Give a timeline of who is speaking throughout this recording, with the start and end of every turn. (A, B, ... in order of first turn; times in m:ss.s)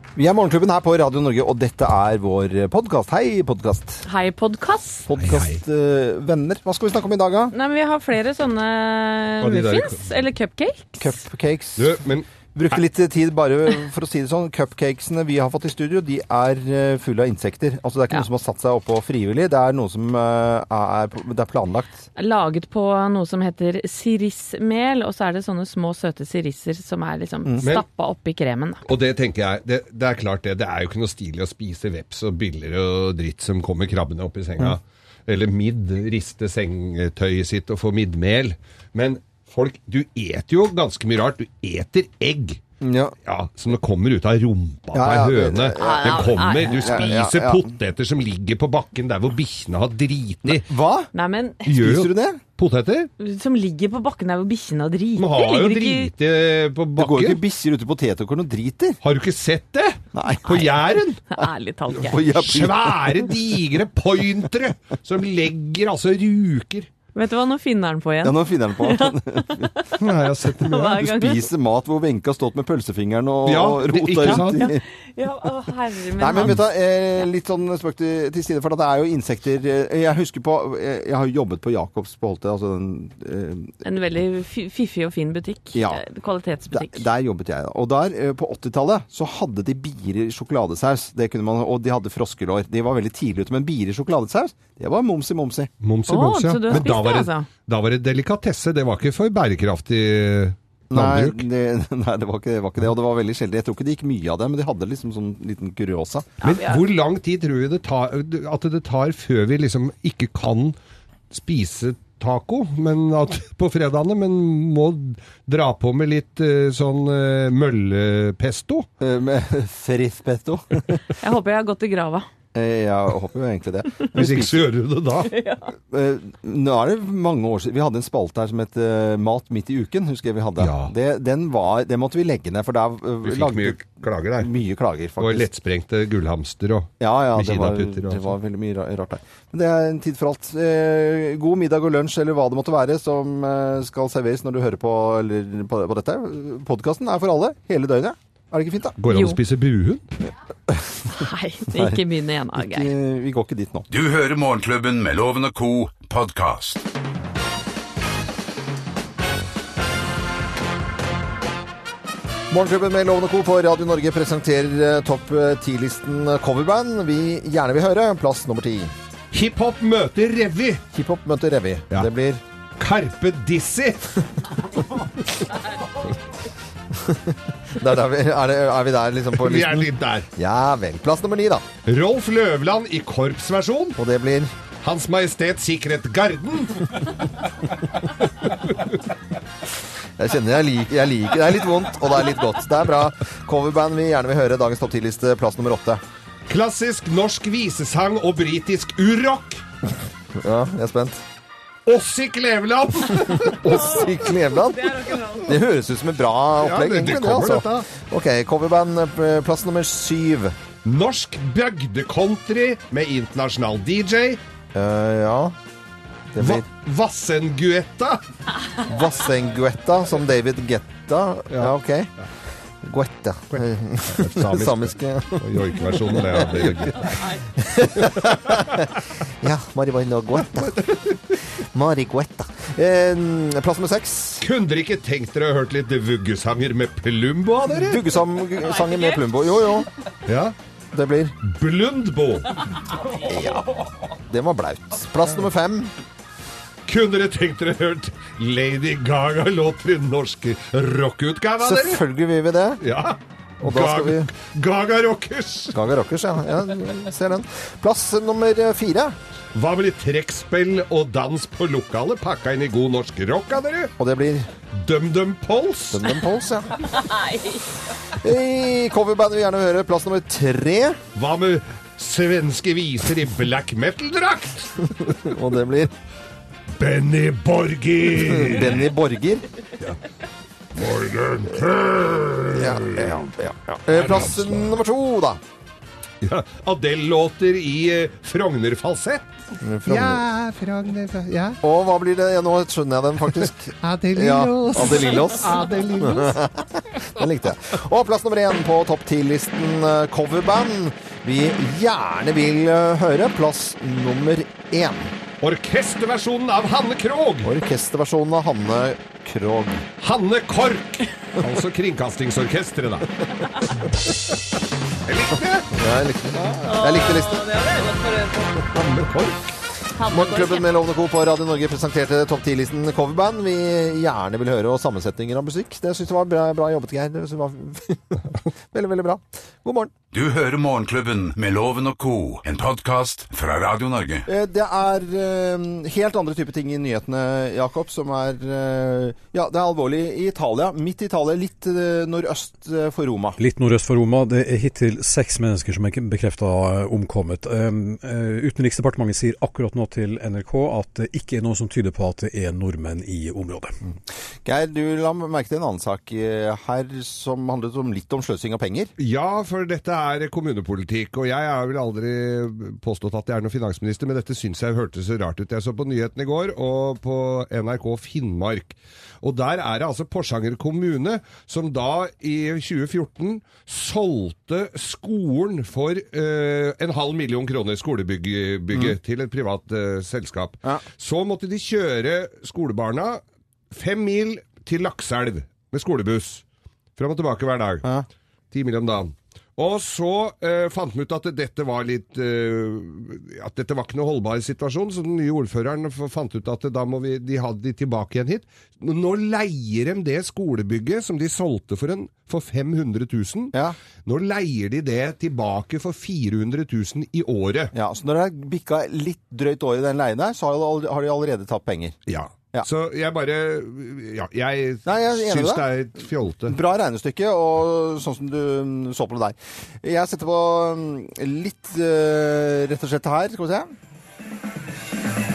0:00.2-0:04.0 A
0:04.0-0:05.0 B
0:05.1-0:07.5 A
0:05.2-0:05.6 C
0:07.5-0:11.2 B
0:09.4-0:10.1 C
0:11.0-0:12.0 A
0:11.8-0:12.3 C
0:12.5-0:22.0 A
0:22.2-0:28.8 B
0:28.8-0:42.6 C
0:42.8-0:43.1 A
0:43.2-0:50.7 C
0:44.9-0:47.7 A
0:45.8-0:47.0 B
0:50.4-0:51.1 A
0:51.1-0:51.7 B
0:51.7-0:53.1 C
0:51.7-0:52.4 A
0:53.2-0:56.1 B
0:55.2-0:57.4 C
0:57.0-0:59.0 A
0:59.0-1:01.2 C
1:00.1-1:00.8 A
1:01.3-1:02.2 B
1:02.0-1:03.3 A
1:02.3-1:06.9 C
1:07.1-1:10.0 B
1:08.2-1:09.7 A
1:10.0-1:11.0 C
1:10.6-1:11.5 B
1:11.0-1:14.8 A
1:13.4-1:14.7 C
1:14.2-1:16.5 B
1:16.2-1:23.7 A
1:23.8-1:27.0 B
1:25.7-1:26.0 A
1:26.7-1:35.7 A
1:35.8-1:41.4 C
1:36.1-1:37.5 B
1:40.9-1:46.3 A
1:46.4-1:46.8 B
1:46.4-1:50.7 C
1:51.3-1:58.9 C
1:59.0-2:01.0 A
2:01.2-2:02.2 B
2:02.5-2:04.7 A
2:04.1-2:05.3 C
2:05.3-2:05.7 B
2:05.9-2:13.8 A
2:10.6-2:10.9 C
2:13.2-2:14.5 C
2:14.4-2:15.5 A
2:15.2-2:18.3 C
2:17.0-2:29.0 A
2:29.0-2:30.1 C
2:29.1-2:29.4 B
2:30.7-2:32.0 A
2:31.1-2:32.9 B
2:32.6-2:33.8 A
2:33.9-2:36.8 D
2:42.5-2:48.9 A
2:49.3-2:50.8 C
2:50.9-2:52.4 A
2:52.8-2:54.3 C
2:56.9-3:01.6 A
2:59.3-3:00.3 C
3:01.8-3:04.0 C
3:04.0-3:04.5 A
3:04.8-3:07.0 C
3:08.4-3:09.0 C
3:10.2-3:16.0 A
3:16.5-3:19.6 C
3:20.3-3:21.2 A
3:21.8-3:23.8 C
3:23.4-3:24.9 A
3:23.7-3:25.5 B
3:25.5-3:30.6 A
3:26.6-3:27.8 C
3:30.8-3:34.4 C
3:34.7-3:35.6 A
3:36.3-3:36.6 A
3:36.4-3:38.2 C
3:38.8-3:42.1 A
3:42.8-3:48.8 A
3:43.5-3:47.3 C
3:48.0-3:49.0 C
3:49.4-3:50.9 A
3:50.4-3:51.5 C
3:51.5-3:54.5 A
3:54.4-3:58.0 C
3:57.7-3:59.9 A
3:58.6-3:59.4 B
4:00.2-4:00.5 C
4:00.9-4:01.4 A
4:01.4-4:02.6 C
4:03.2-4:05.9 A
4:06.9-4:12.0 C
4:11.6-4:12.8 A
4:12.8-4:15.8 C
4:13.6-4:14.3 A
4:15.7-4:19.2 A
4:19.5-4:23.9 C
4:24.0-4:24.5 A
4:24.7-4:26.2 C
4:25.9-4:26.8 A
4:26.9-4:27.7 B
4:28.2-4:31.0 A
4:31.1-4:35.3 C
4:35.2-4:35.9 A
4:36.8-4:38.9 C
4:38.2-4:39.4 A
4:40.7-4:44.8 C
4:42.5-4:45.4 A
4:46.2-4:49.3 C
4:49.6-4:50.2 A
4:49.8-4:51.6 C
4:51.6-5:05.1 A
4:53.3-4:56.4 C
5:05.4-5:07.5 C
5:07.4-5:09.9 A
5:10.0-5:13.2 C
5:13.8-5:14.3 C
5:15.0-5:15.7 C
5:15.7-5:17.4 A
5:16.7-5:18.6 B
5:18.6-5:19.4 C
5:20.0-5:20.7 B
5:20.1-5:29.9 A
5:30.1-5:34.3 D
5:34.2-5:43.4 A
5:43.4-5:53.7 E
5:54.4-5:58.9 A
5:59.0-6:26.4 C
6:27.0-6:27.8 C
6:28.5-6:43.5 C
6:44.0-6:47.7 C
6:47.7-6:52.0 A
6:52.1-6:56.6 C
6:54.8-6:55.6 A
6:56.4-7:03.7 A